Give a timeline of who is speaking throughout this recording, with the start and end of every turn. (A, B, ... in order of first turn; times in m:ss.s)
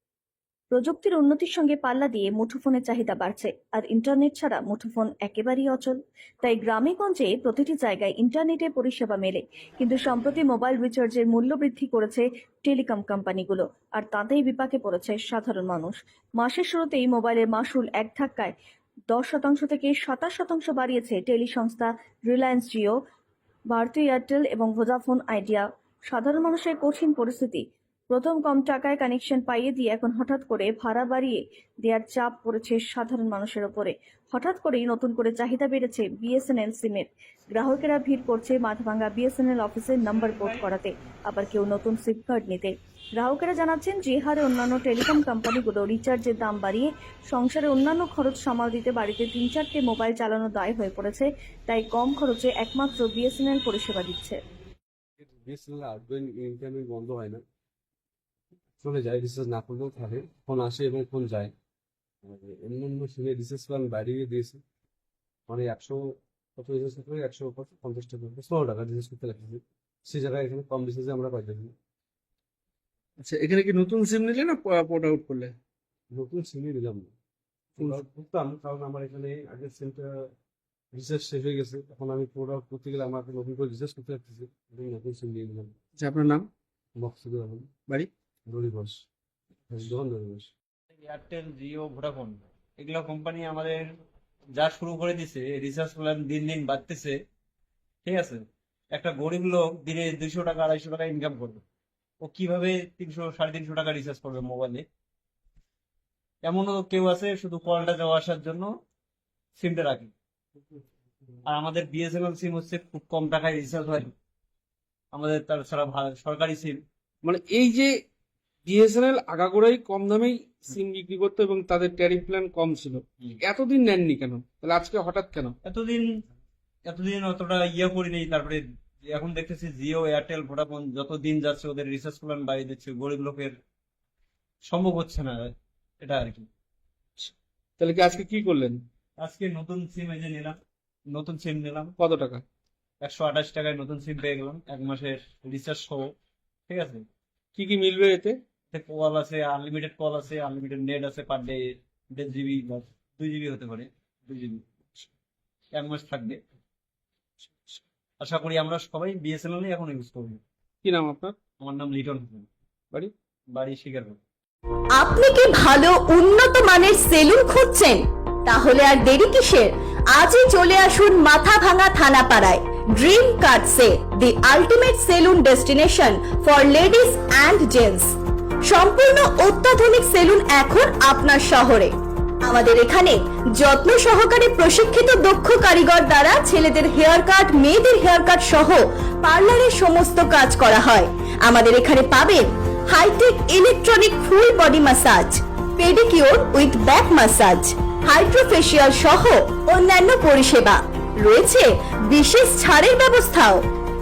0:00.7-0:18.5 A
0:19.1-0:23.0 A
0:23.7-0:54.4 A
0:55.2-0:57.4 B
0:58.8-1:01.5 B
1:02.2-1:04.6 B
1:05.5-1:11.7 B
1:13.2-1:15.6 C
1:16.1-1:17.1 B
1:17.8-1:20.1 B
1:20.9-1:25.8 B
1:26.0-1:26.5 C
1:27.0-1:27.7 B
1:28.5-1:29.0 B
1:29.7-1:30.5 B
1:31.0-1:33.8 D
1:34.6-1:37.2 D
1:38.0-1:41.6 D
1:42.2-1:44.9 D
1:46.4-1:48.7 D
1:49.6-1:50.1 D
1:51.4-1:54.1 D
1:55.1-1:56.8 D
1:57.2-1:57.9 C
1:58.7-2:05.5 C
2:05.6-2:06.1 D
2:06.9-2:13.6 D
2:14.7-2:16.5 D
2:17.2-2:18.8 C
2:19.2-2:20.6 D
2:21.1-2:21.9 D
2:22.0-2:22.4 C
2:23.0-2:26.1 D
2:26.7-2:27.1 D
2:27.6-2:28.4 C
2:28.7-2:34.6 D
2:35.7-2:36.4 D
2:38.2-2:40.4 D
2:40.8-2:41.4 C
2:41.6-2:42.5 D
2:43.5-2:44.2 D
2:44.9-3:23.6 E